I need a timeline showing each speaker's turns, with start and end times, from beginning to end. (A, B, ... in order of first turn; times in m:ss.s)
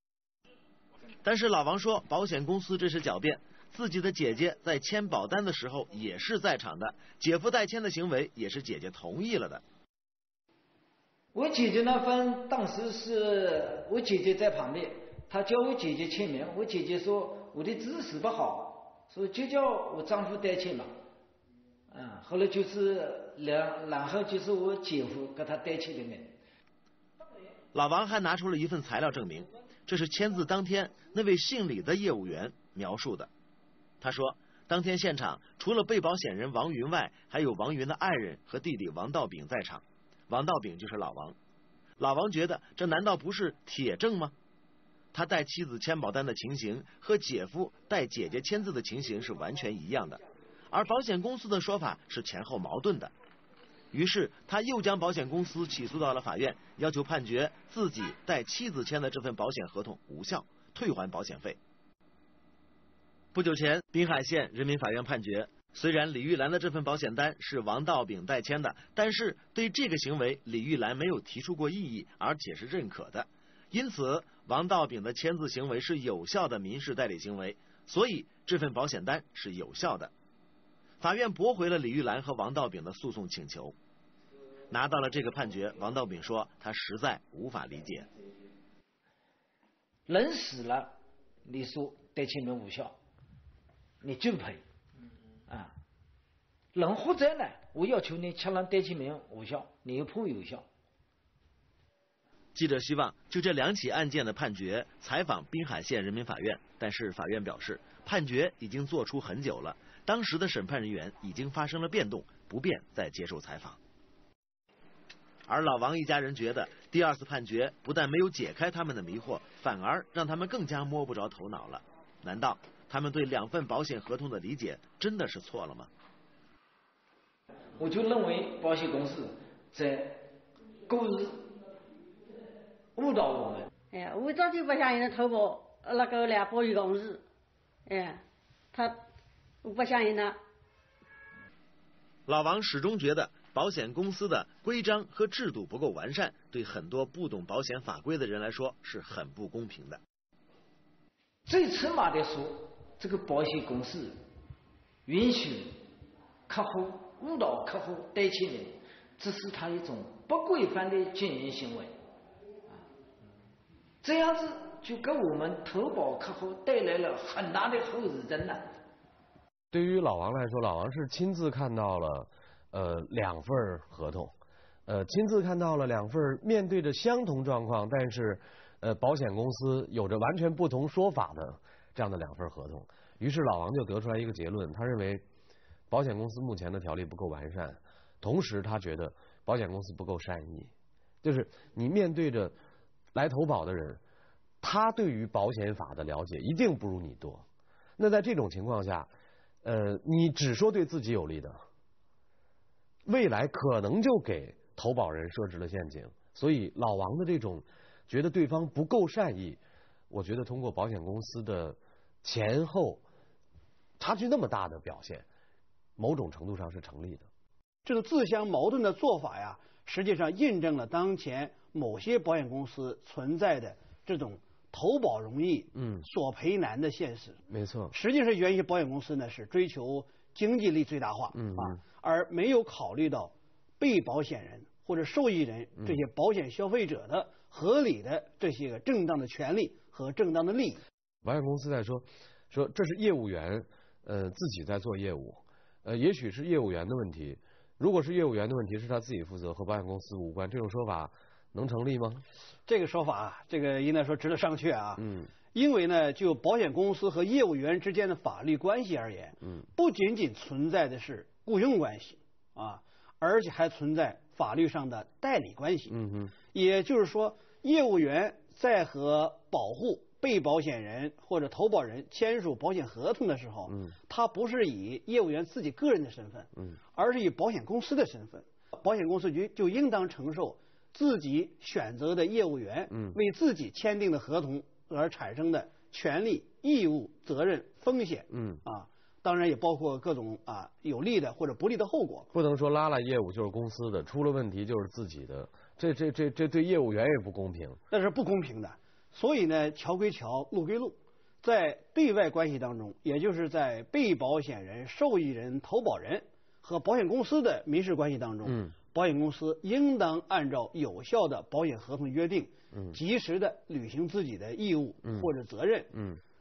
0:01.2-0:09.6 A
0:11.3-0:20.9 B
0:21.9-0:26.4 B
0:27.7-0:33.3 A
0:34.0-0:41.4 A
0:42.0-0:44.3 A
0:45.1-0:53.1 A
0:53.9-1:01.6 A
1:03.3-1:20.1 A
1:21.0-1:23.7 A
1:24.7-1:28.1 A
1:30.1-1:33.0 B
1:34.0-1:34.6 B
1:35.5-1:35.7 B
1:36.7-1:40.7 B
1:42.6-1:53.8 A
1:55.5-2:05.9 A
2:07.8-2:10.3 B
2:10.9-2:11.5 B
2:13.0-2:13.7 B
2:13.9-2:17.2 C
2:17.9-2:18.2 C
2:19.6-2:20.3 C
2:22.3-2:30.0 A
2:31.5-2:34.2 B
2:35.1-2:35.8 B
2:36.5-2:41.9 B
2:44.0-2:48.7 B
2:49.7-2:54.3 D
2:54.9-3:05.2 D
3:05.9-3:10.7 D
3:11.2-3:12.6 D
3:13.2-3:14.0 D
3:14.6-3:17.4 D
3:18.0-3:19.1 D
3:19.6-3:21.6 D
3:23.1-3:33.0 D
3:34.0-3:35.3 D
3:36.0-3:37.3 D
3:37.8-3:47.4 E
3:45.8-3:46.0 D
3:47.5-3:47.9 D
3:47.9-4:00.8 E
3:51.3-3:51.8 D
4:01.2-4:12.2 D
4:12.7-4:15.0 E
4:15.0-4:15.3 D
4:15.5-4:25.9 E
4:25.9-4:26.4 D
4:26.5-4:52.3 E
4:48.3-4:48.6 D
4:52.3-4:57.8 D
4:57.9-5:16.0 E
5:08.4-5:08.8 D